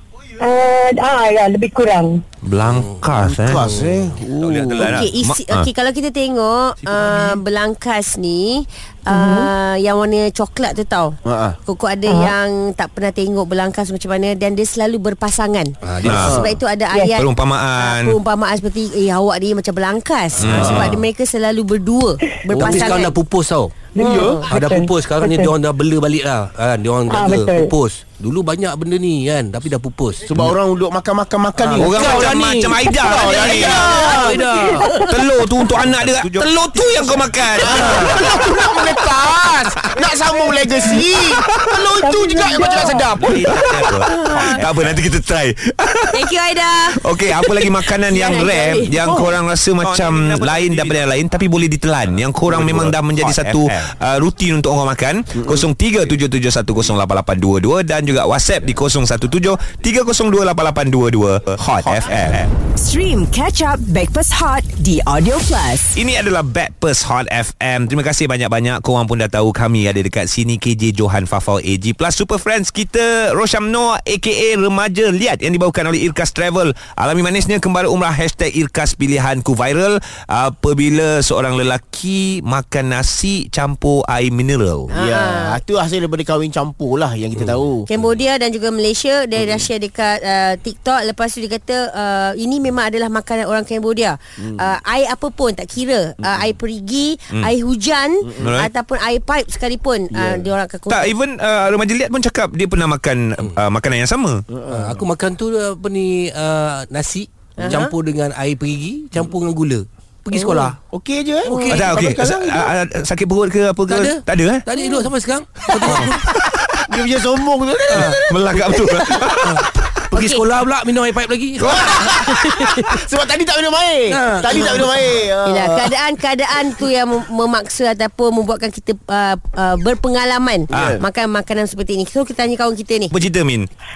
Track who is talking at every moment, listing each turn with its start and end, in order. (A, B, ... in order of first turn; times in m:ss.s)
0:00.4-0:02.2 A
0:02.4-0:03.8 B
0:02.6-0:03.0 C
0:03.2-0:05.0 D
0:03.7-0:05.0 C
0:04.8-0:05.7 B
0:04.8-0:17.3 E
0:06.8-0:07.4 C
0:09.1-0:09.5 A
0:11.2-0:11.6 D
0:12.0-0:12.3 A
0:15.8-0:16.4 C
0:16.0-0:16.4 B
0:16.1-0:16.6 D
0:16.9-0:17.2 A
0:17.1-0:18.2 B
0:17.8-0:23.1 E
0:20.4-0:21.0 C
0:20.4-0:21.0 B
0:22.5-0:23.8 C
0:23.9-0:25.5 A
0:24.0-0:24.5 E
0:24.0-0:24.4 D
0:24.5-0:30.3 C
0:27.1-0:27.8 A
0:30.3-0:32.4 D
0:31.6-0:34.9 C
0:31.8-0:33.8 B
0:33.0-0:34.9 D
0:33.8-0:35.8 A
0:34.9-0:38.4 B
0:37.5-0:43.9 D
0:37.7-0:38.2 C
0:42.0-0:43.9 A
0:43.2-0:46.3 B
0:44.0-0:44.7 E
0:46.1-0:47.0 E
0:46.8-1:02.5 B
0:47.5-0:49.1 E
0:49.0-0:49.4 D
1:02.8-1:06.0 F
1:05.9-1:24.9 B
1:24.9-1:27.9 D
1:24.9-1:25.6 E
1:27.9-1:41.1 E
1:29.4-1:29.7 D
1:34.4-1:34.6 D
1:36.2-1:36.5 D
1:38.3-1:38.5 D
1:38.4-1:38.7 B
1:40.1-1:40.5 D
1:40.9-1:44.4 B
1:44.5-1:45.0 D
1:44.7-1:50.8 C
1:47.6-1:47.9 E
1:50.3-1:50.7 E
1:50.9-1:52.7 D
1:51.4-1:51.8 E
1:51.4-1:51.9 C
1:51.7-1:54.6 B
1:53.9-1:56.2 C
1:55.9-1:56.6 B
1:56.9-1:59.3 D
1:57.9-1:58.2 C
1:58.0-1:59.8 B
1:59.4-2:02.1 C
2:00.1-2:00.4 E
2:01.6-2:05.9 D
2:02.2-2:02.8 E
2:04.1-2:04.9 C
2:05.4-2:13.1 E
2:10.7-2:11.0 D
2:10.7-2:11.0 B
2:13.1-2:13.7 B